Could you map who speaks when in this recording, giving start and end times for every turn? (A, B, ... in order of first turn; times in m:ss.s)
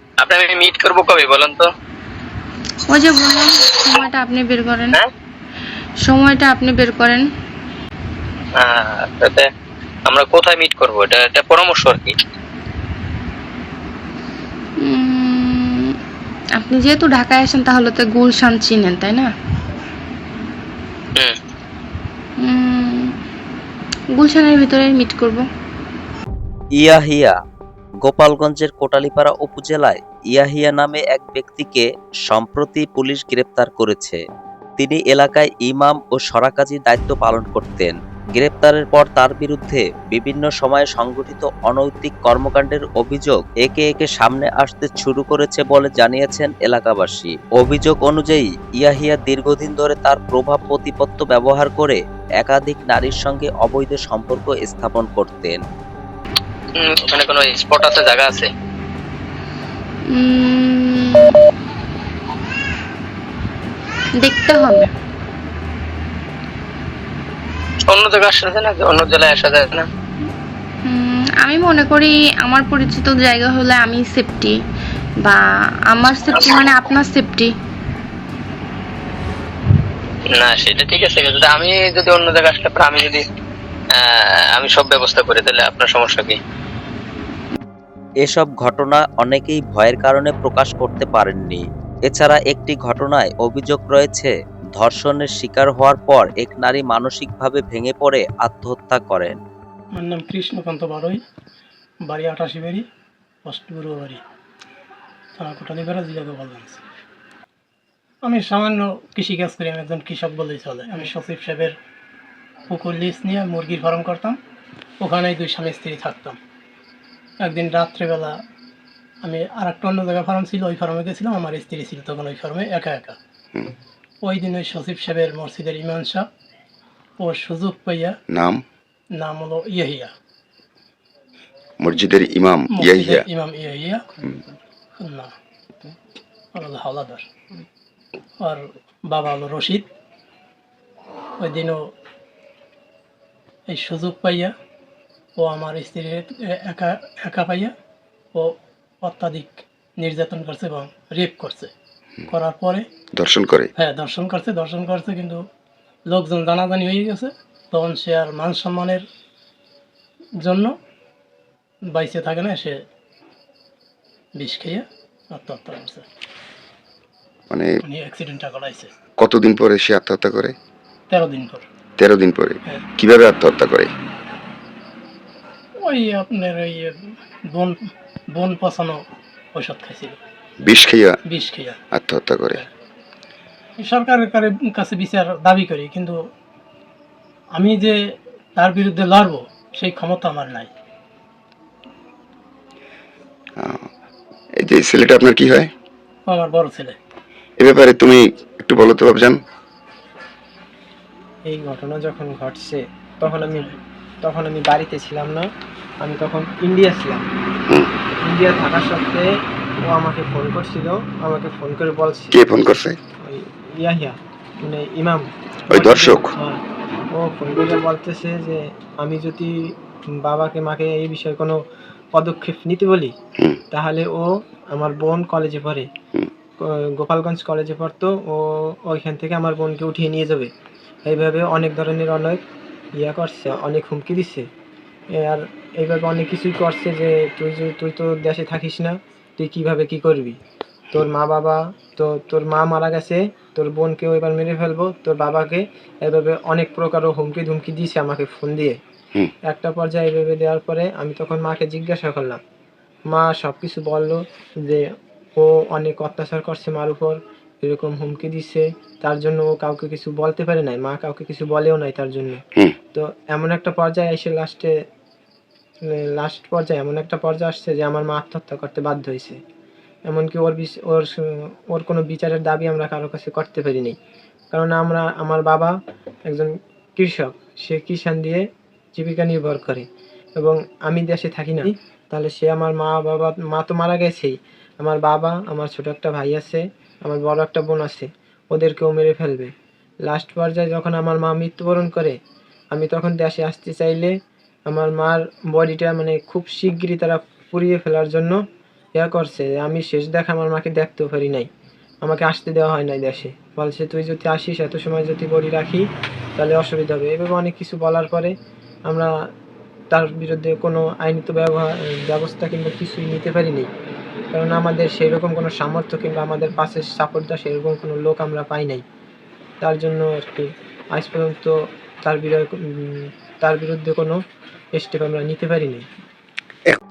0:00.2-0:01.7 A
0:02.9-0:05.0 B
0:06.0-0:07.3 B
0:08.6-0:09.5 A
0:10.1-0:12.2 A
0:14.8-0:15.9 B
0:16.6-0:19.3 B
0:22.4-0:23.1 B
0:24.2-0:25.5 B
0:26.8-0:27.4 C
0:28.0-0:34.2 C
0:34.8-0:55.6 C
0:56.8-0:58.5 A
1:00.1-1:01.4 B
1:04.2-1:04.9 B
1:07.9-1:09.9 A
1:10.8-1:14.6 B
1:15.2-1:17.5 B
1:16.3-1:16.7 A
1:20.3-1:23.2 A
1:24.0-1:26.4 A
1:28.2-1:39.4 C
1:40.0-1:41.2 D
1:42.1-1:42.9 D
1:43.4-1:44.2 D
1:45.4-1:46.8 D
1:48.2-1:51.8 D
1:52.7-1:54.4 D
1:55.0-1:56.4 D
1:57.4-1:58.4 D
1:59.2-2:03.2 D
2:04.2-2:06.3 D
2:07.2-2:08.2 D
2:08.3-2:08.6 E
2:09.1-2:10.1 D
2:11.8-2:13.3 E
2:12.7-2:14.0 D
2:15.0-2:15.3 D
2:16.5-2:17.3 D
2:18.4-2:19.9 D
2:21.4-2:21.9 D
2:23.7-2:24.5 D
2:25.4-2:27.7 D
2:28.3-2:31.7 D
2:32.3-2:32.9 D
2:33.2-2:33.7 E
2:33.8-2:35.4 D
2:36.1-2:39.0 D
2:40.4-2:40.8 D
2:41.9-2:42.8 D
2:44.4-2:46.0 D
2:47.5-2:47.8 E
2:47.8-2:48.9 D
2:49.2-2:50.6 E
2:51.1-2:51.6 D
2:52.0-2:53.9 E
2:55.8-2:57.8 D
2:58.3-2:59.0 D
2:59.5-3:00.2 D
3:00.6-3:01.2 E
3:01.3-3:01.8 D
3:02.0-3:02.6 E
3:03.8-3:06.2 D
3:07.5-3:08.0 D
3:08.6-3:10.7 D
3:13.6-3:13.9 E
3:14.6-3:15.7 E
3:16.3-3:17.0 D
3:17.6-3:19.4 E
3:21.5-3:23.7 F
3:23.3-3:23.8 D
3:24.2-3:25.5 F
3:26.0-3:27.2 F
3:28.2-3:29.2 F
3:29.9-3:32.4 F
3:32.3-3:33.0 E
3:33.2-3:36.6 F
3:35.7-3:36.3 E
3:37.2-3:39.7 F
3:40.2-3:41.6 F
3:42.1-3:43.1 F
3:43.7-3:45.9 F
3:46.6-3:50.5 F
3:51.1-3:52.4 F
3:53.0-3:54.5 F
3:55.2-4:00.4 F
4:00.9-4:08.8 F
4:09.5-4:12.4 F
4:13.1-4:14.8 F
4:15.4-4:22.4 F
4:22.9-4:24.7 F
4:26.2-4:29.4 F
4:30.1-4:34.0 F
4:34.5-4:35.7 F
4:36.3-4:39.9 F
4:40.4-4:49.5 F
4:50.1-4:52.2 F
4:52.7-4:54.1 F
4:54.7-4:58.4 F
4:59.0-5:01.5 F
5:02.0-5:08.3 F
5:09.9-5:13.7 F
5:14.3-5:18.8 F
5:19.6-5:24.2 F
5:24.8-5:25.9 F